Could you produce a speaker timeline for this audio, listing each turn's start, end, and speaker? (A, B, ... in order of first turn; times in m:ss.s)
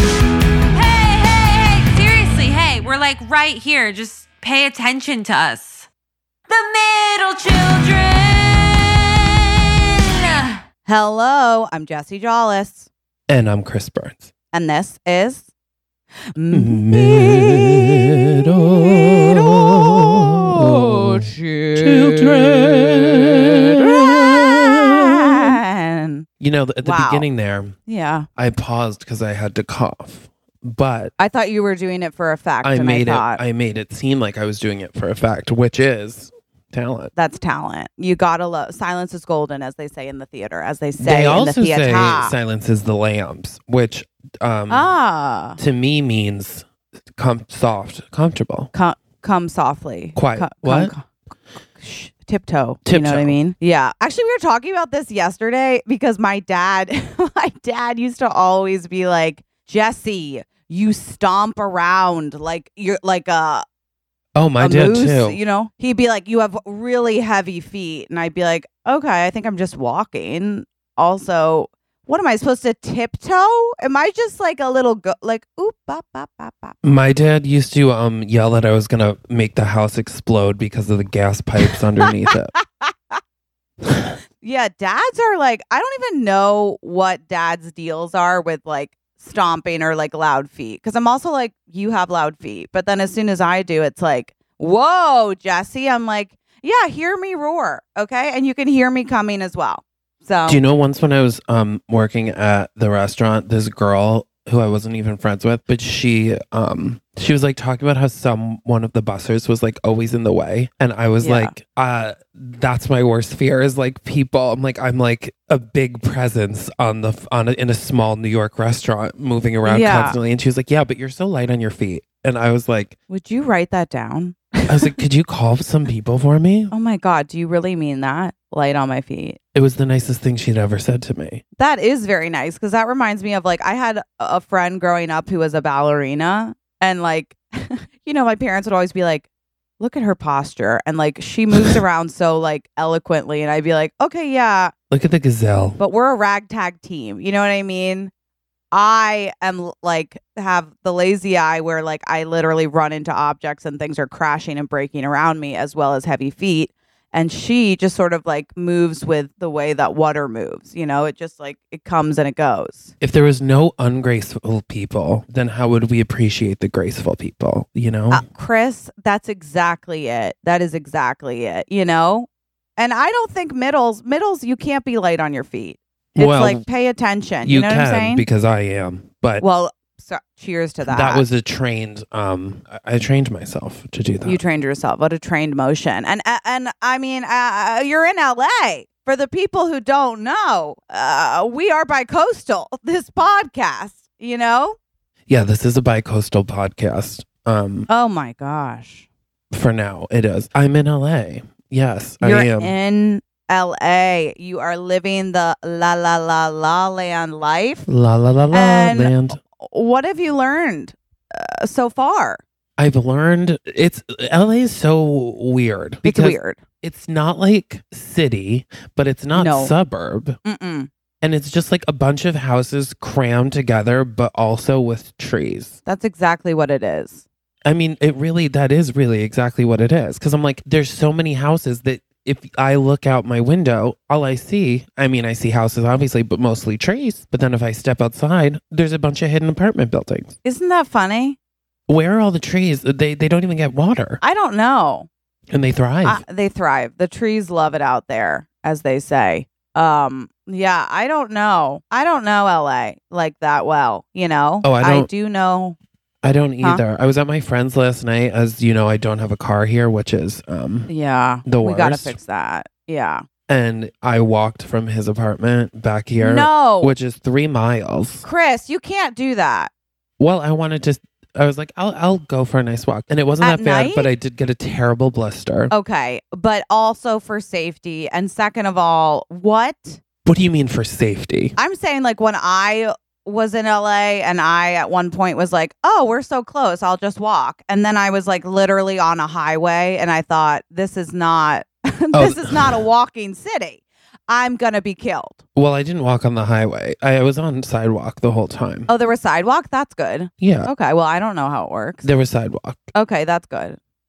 0:00.7-0:05.9 A
0:06.5-0:10.6 A
0:10.9-0:12.9 B
0:13.3-0:14.3 C
0:14.5-0:15.5 B
0:16.4-0:17.6 B
0:16.5-0:25.5 C
0:19.2-0:22.7 B
0:23.4-0:26.3 B
0:26.4-0:27.8 C
0:26.8-0:27.3 B
0:27.9-0:28.3 B
0:28.4-0:31.1 C
0:31.2-0:33.4 B
0:32.6-0:37.1 C
0:37.2-0:42.4 B
0:41.0-0:44.9 C
0:44.7-0:45.6 B
0:45.6-0:48.7 C
0:48.7-0:51.1 B
0:50.2-0:50.9 C
0:51.7-1:03.6 B
0:52.9-0:53.4 C
1:04.4-1:05.4 C
1:04.6-1:16.8 B
1:16.8-1:22.5 C
1:22.8-1:23.2 B
1:24.4-1:40.6 B
1:40.5-2:03.0 C
1:51.2-1:51.5 B
1:59.6-2:00.2 B
2:03.1-2:05.0 B
2:04.7-2:06.7 C
2:06.7-2:09.4 B
2:09.5-2:11.4 C
2:11.6-2:19.3 B
2:19.8-2:24.7 B
2:24.9-2:25.8 C
2:25.8-2:28.1 B
2:28.7-2:42.9 B
2:43.0-2:48.2 C
2:48.1-2:58.2 B
2:56.2-2:56.6 C
2:57.4-2:59.4 C
2:59.4-3:01.3 B
3:00.8-3:04.4 C
3:04.2-3:14.8 B
3:15.3-3:17.9 C
3:17.9-3:19.1 B
3:19.5-3:22.7 C
3:22.2-3:27.9 B
3:27.9-3:29.4 C
3:28.5-3:32.4 B
3:32.8-3:40.4 C
3:36.0-3:36.6 B
3:39.3-3:39.7 B
3:40.4-3:40.9 B
3:41.2-3:45.8 C
3:45.9-3:47.2 B
3:47.6-4:00.4 C
4:00.4-4:01.4 B
4:01.9-4:04.2 C
4:04.2-4:05.1 B
4:05.5-4:06.2 C
4:06.0-4:15.8 B
4:14.6-4:15.1 C
4:16.2-4:20.9 C
4:20.9-4:23.2 B
4:21.4-4:22.2 C
4:23.5-4:28.2 C
4:26.2-4:26.9 B
4:28.2-4:29.7 B
4:30.2-4:35.7 C
4:33.4-4:34.1 B
4:35.7-4:40.0 B
4:40.3-4:41.6 C
4:41.6-4:55.4 B
4:52.1-4:52.7 C
4:55.6-4:58.9 C
4:58.9-5:02.0 B
5:00.4-5:00.7 C
5:02.0-5:02.8 C
5:03.0-5:03.8 B